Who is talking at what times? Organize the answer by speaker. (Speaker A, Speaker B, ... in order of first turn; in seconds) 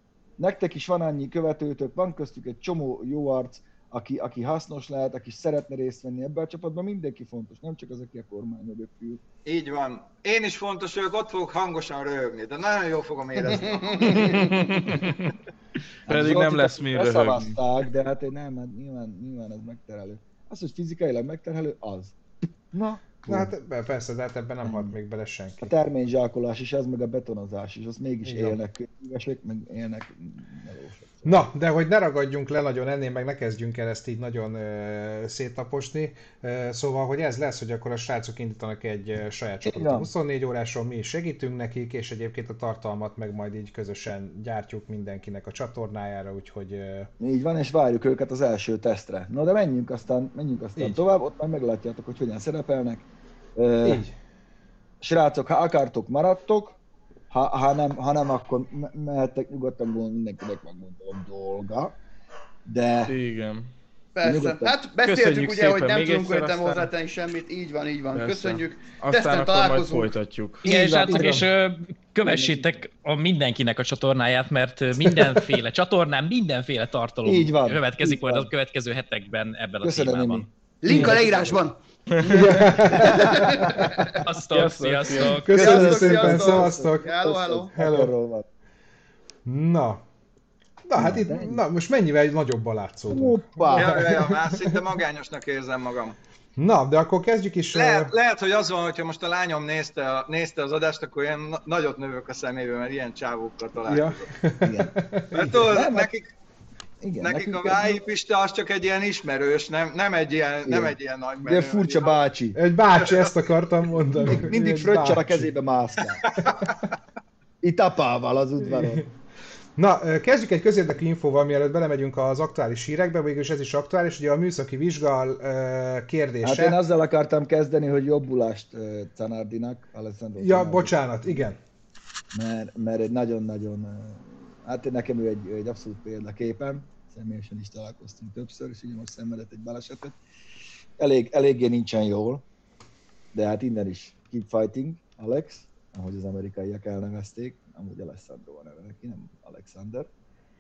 Speaker A: 0.4-9.2, 14.1-15.0, 16.1-22.2, 22.7-23.5, 24.6-25.0, 25.6-31.4, 39.6-40.1, 47.2-54.0, 55.0-56.8, 57.3-62.0, 62.7-63.1, 64.2-64.8, 70.7-71.4, 72.3-72.7, 77.2-78.5, 79.8-81.6, 82.9-84.2, 85.5-88.5, 91.0-91.6, 93.1-94.1, 104.6-105.0, 105.5-106.1, 107.0-108.0, 110.7-112.6, 114.2-116.2, 117.6-119.0, 126.4-131.5, 132.3-140.2, 141.0-142.5, 143.3-150.1
Speaker B: 9.5-14.9, 93.7-96.2, 97.7-104.3, 105.3-106.3, 107.2-112.2, 113.0-113.3, 116.2-116.8
Speaker C: 14.9-15.2, 16.1-17.6, 63.0-63.7, 65.0-66.9, 68.1-70.7, 82.1-82.7, 84.5-85.5
Speaker D: 23.2-25.7, 28.2-28.6, 31.2-47.1, 53.8-54.1, 71.0-71.5, 75.1-75.4, 82.2-83.8, 85.4-87.1, 87.8-88.1, 89.5-90.0, 90.8-94.8, 96.6-98.1, 103.9-105.6, 112.5-115.5, 118.7-119.1, 119.8-126.8, 130.4-131.6
Speaker E: 64.2-70.1, 80.8-81.8, 82.8-84.1, 85.5-87.7
Speaker F: 70.7-80.5, 84.1-85.5